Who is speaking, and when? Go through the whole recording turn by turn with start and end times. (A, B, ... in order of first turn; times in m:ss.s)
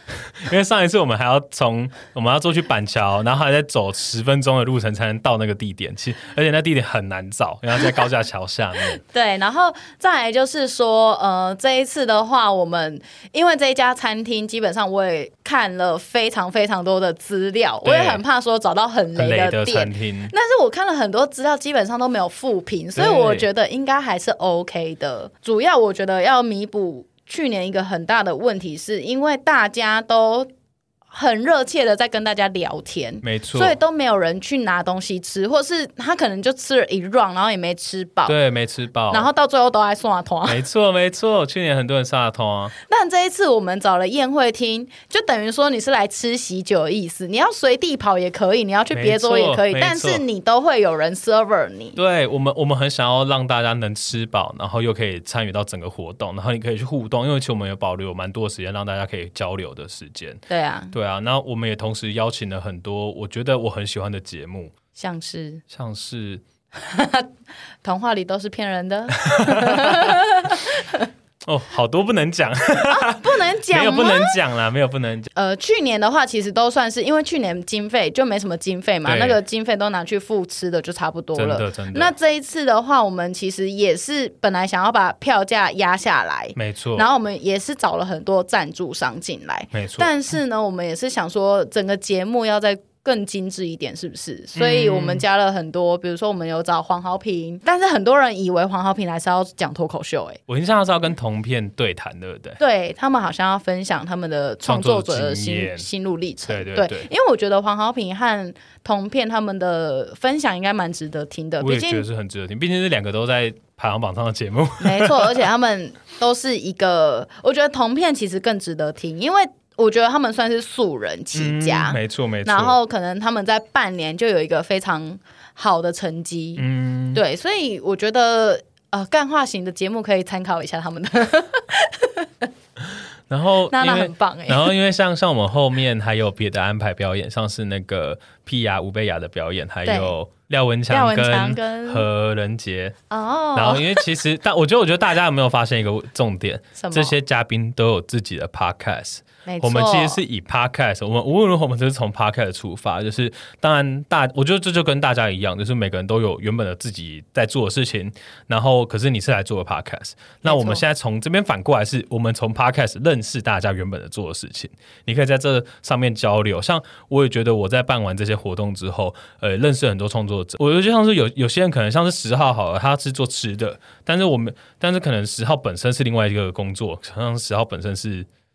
0:00.3-0:09.0 A
0:08.9-0:30.5 B
0:17.8-0:18.2 A
0:19.2-0:20.3 A
0:23.0-0:23.5 A
0:31.1-0:38.4 B
0:33.2-0:33.8 A
0:38.3-0:39.3 A
0:39.1-0:40.6 B
0:40.5-0:42.7 A
0:42.9-0:52.0 B
0:48.9-0:50.2 A
0:52.0-1:04.7 A
1:00.5-1:00.9 B
1:05.0-1:05.6 B
1:05.7-1:06.4 A
1:06.8-1:07.3 B
1:07.8-1:11.1 B
1:09.2-1:10.2 A
1:11.4-1:15.3 A
1:12.9-1:14.4 B
1:15.4-1:40.4 B
1:19.0-1:19.4 A
1:21.4-1:22.1 A
1:26.6-1:27.1 A
1:29.7-1:30.1 A
1:34.6-1:35.2 A
1:40.5-1:42.6 A
1:42.6-1:52.0 B
1:44.6-1:45.9 A
1:46.5-1:47.1 A
1:51.6-1:55.4 A
1:54.8-2:12.5 B
2:01.3-2:02.8 A
2:06.6-2:07.2 A
2:13.3-2:23.0 A
2:13.7-2:14.8 B
2:19.9-2:20.1 B
2:20.9-2:22.1 B
2:23.1-2:24.0 B
2:23.6-2:58.3 A
2:26.8-2:27.1 B
2:29.5-2:30.2 B
2:40.4-2:40.8 B